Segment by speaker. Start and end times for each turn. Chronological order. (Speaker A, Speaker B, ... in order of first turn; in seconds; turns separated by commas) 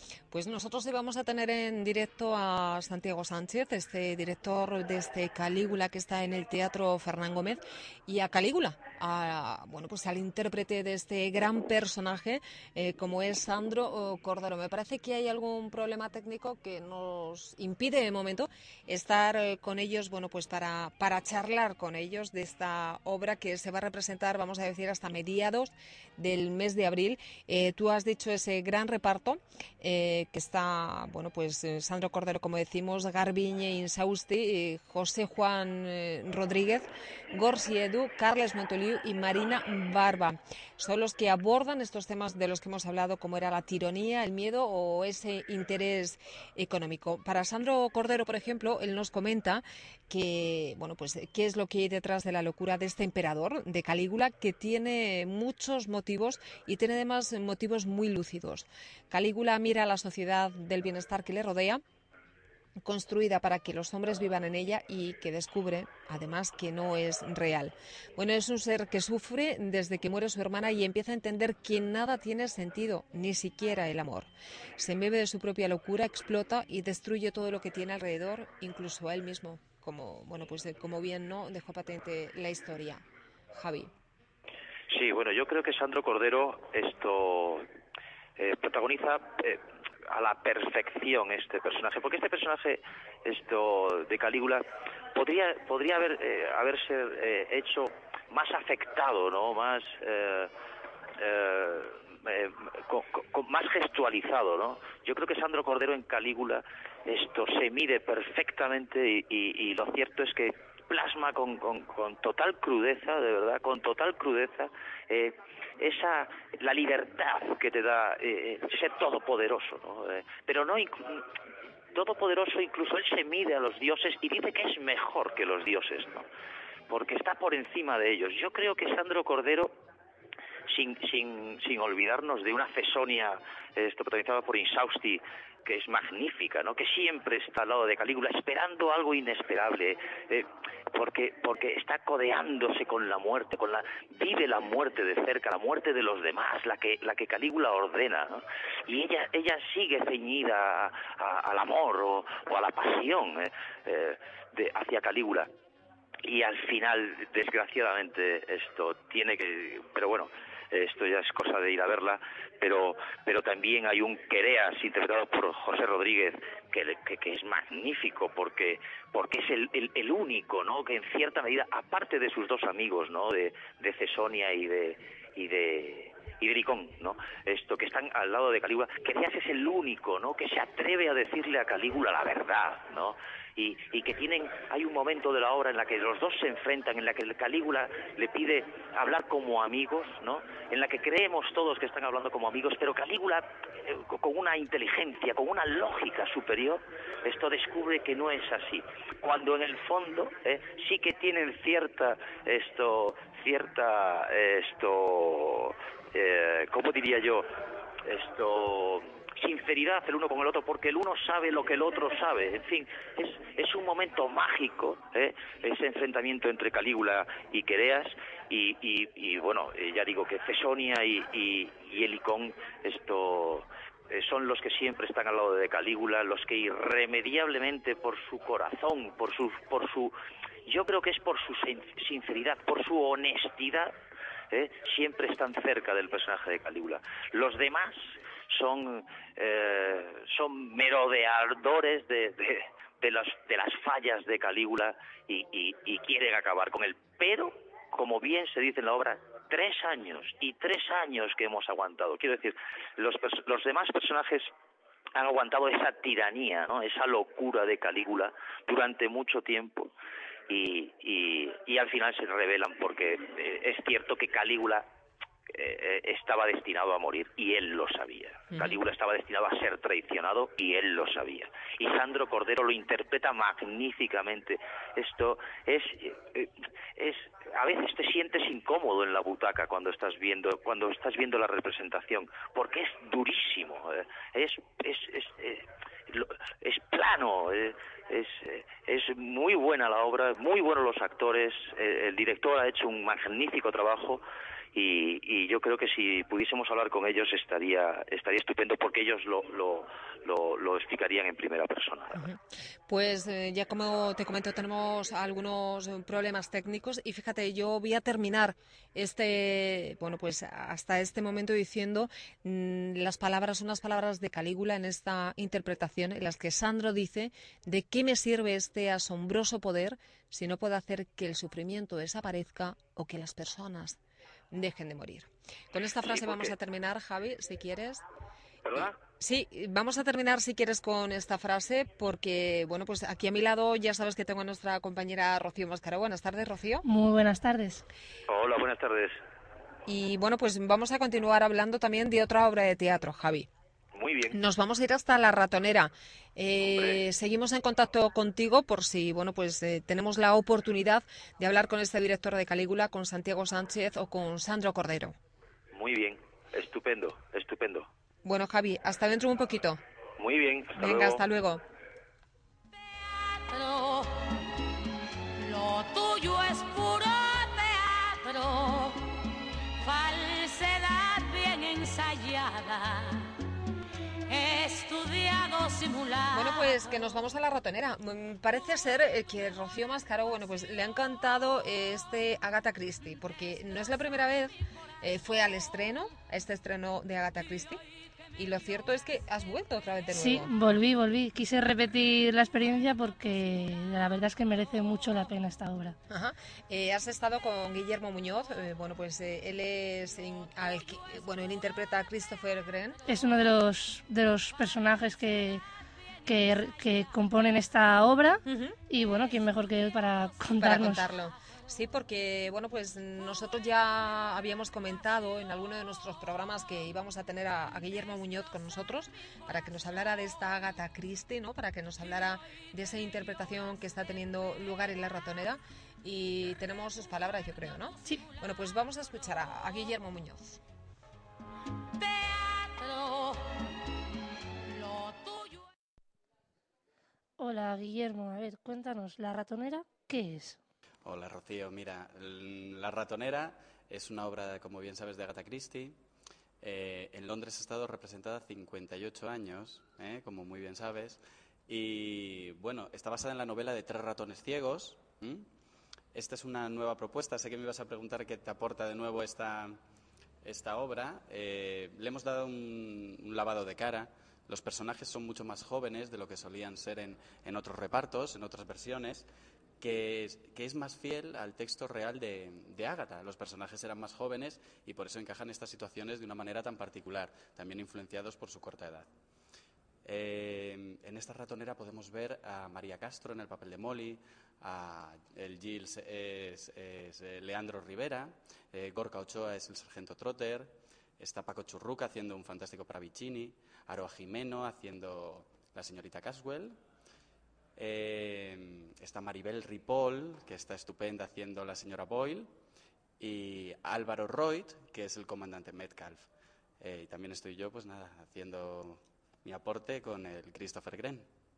Speaker A: 0.3-61.8, Speaker A: 62.8-83.0, Speaker A: 83.5-83.9, Speaker B: 84.9-87.7, Speaker B: 88.4-100.5, Speaker B: 101.2-121.2, Speaker B: 121.9-126.2, Speaker B: 126.9-129.8, Speaker B: 130.7-155.5, Speaker B: 156.2-207.5, Speaker B: 208.0-230.1, Speaker B: 230.7-233.9, Speaker B: 234.5-254.5, Speaker B: 255.1-259.9, Speaker B: 260.5-264.9, Speaker B: 265.5-294.2, Speaker B: 294.7-302.2, Speaker A: 302.1-324.0, Speaker A: 324.5-328.0, Speaker B: 326.1-326.5, Speaker B: 328.6-329.0, Speaker A: 328.8-336.9, Speaker C: 336.8-337.8, Speaker B: 338.3-339.2, Speaker A: 339.9-343.5, Speaker B: 343.9-344.4, Speaker A: 344.3-355.1, Speaker B: 346.6-347.0, Speaker B: 355.7-357.9, Speaker A: 358.2-359.8, Speaker B: 360.2-361.2, Speaker A: 360.8-361.6, Speaker D: 362.8-364.4, Speaker D: 365.4-369.0, Speaker D: 369.8-373.3, Speaker D: 374.3-376.8, Speaker A: 376.3-387.8, Speaker A: 388.4-390.5, Speaker C: 390.1-396.0, Speaker A: 396.1-403.0, Speaker C: 403.1-405.6, Speaker C: 406.2-411.1, Speaker A: 408.4-408.8, Speaker A: 410.6-430.6, Speaker D: 432.0-433.6, Speaker D: 434.6-435.7, Speaker C: 437.4-440.6, Speaker E: 441.0-446.0, Speaker E: 446.6-455.5, Speaker E: 456.1-459.8, Speaker E: 460.4-469.3, Speaker E: 469.8-479.1, Speaker E: 480.0-496.8, Speaker E: 497.8-502.5, Speaker E: 503.2-506.3, Speaker E: 506.8-511.3